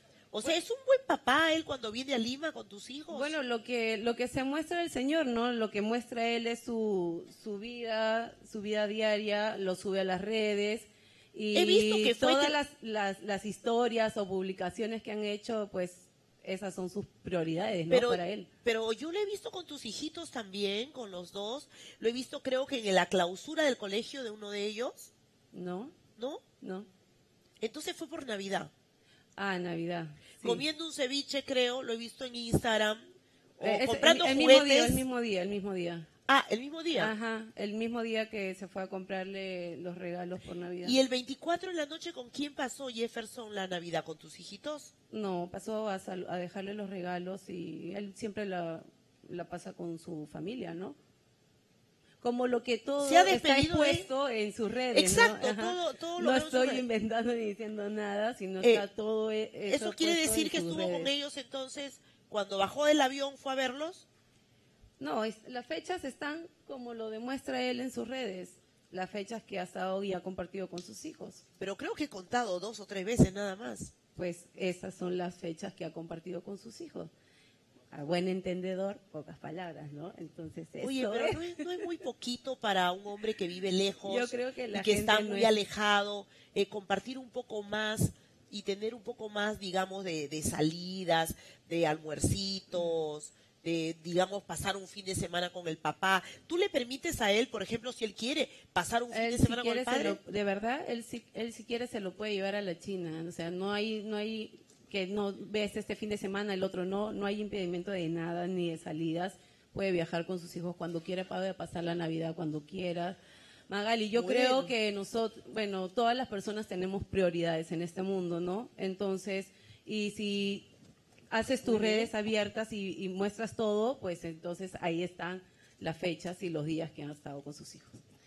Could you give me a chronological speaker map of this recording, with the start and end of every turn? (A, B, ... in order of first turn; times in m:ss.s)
0:00.3-0:03.4 A
0:03.1-0:18.5 B
0:11.5-0:12.6 A
0:17.9-0:25.1 A
0:25.5-0:25.9 B
0:26.2-0:26.4 A
0:26.6-0:26.9 B
0:27.6-0:28.7 A
0:29.4-0:30.6 B
0:30.4-0:33.0 A
0:33.6-0:35.0 A
0:33.6-0:36.1 B
0:36.3-0:37.1 A
0:37.0-0:41.0 B
0:40.8-0:44.9 A
0:45.1-0:51.0 B
0:52.2-1:01.1 B
0:53.0-0:54.1 A
0:54.9-0:56.8 A
0:59.7-1:04.0 A
1:05.0-1:11.4 B
1:11.6-1:13.9 A
1:14.2-1:17.1 B
1:17.9-1:21.8 B
1:20.8-1:40.2 A
1:24.0-1:25.5 B
1:39.1-2:00.7 B
1:54.1-1:54.7 A
2:01.3-2:07.9 B
2:01.6-2:02.1 A